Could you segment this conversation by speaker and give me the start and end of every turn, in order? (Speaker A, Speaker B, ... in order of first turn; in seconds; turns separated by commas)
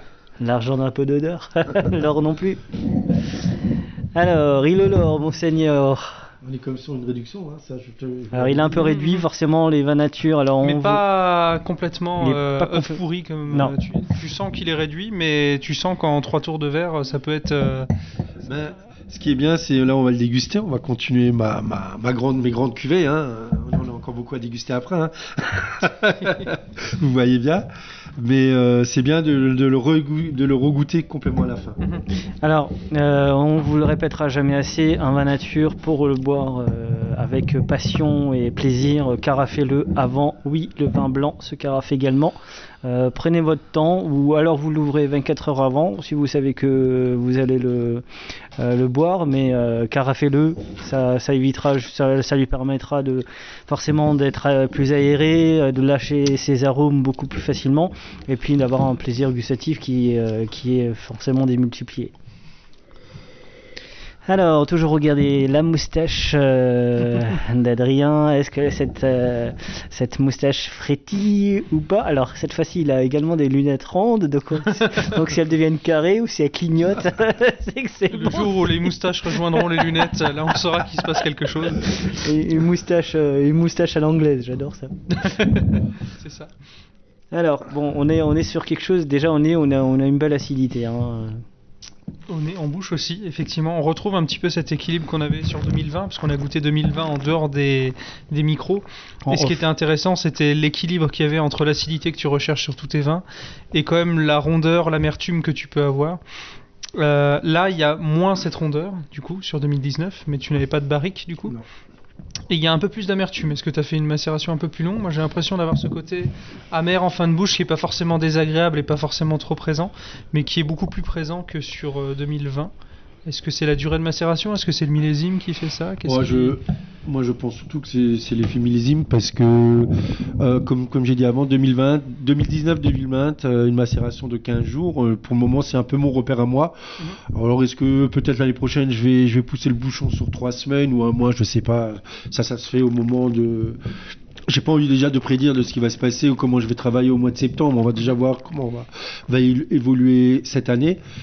Speaker A: 0.4-2.8, Speaker A: 4.2-6.3, Speaker B: 6.4-8.9, Speaker A: 8.3-11.0, Speaker C: 8.8-9.3, Speaker C: 10.6-17.9, Speaker A: 12.2-13.0, Speaker B: 18.4-31.8, Speaker A: 32.4-48.0, Speaker A: 48.6-62.1, Speaker A: 64.3-78.9, Speaker C: 74.7-75.1, Speaker C: 78.1-82.1, Speaker A: 79.5-80.0, Speaker A: 81.9-85.0, Speaker C: 85.1-86.5, Speaker A: 87.3-91.4, Speaker C: 92.3-106.2, Speaker A: 99.3-99.6, Speaker C: 106.9-111.6, Speaker C: 112.5-122.7, Speaker C: 123.3-126.6, Speaker B: 126.0-143.8, Speaker B: 144.5-151.0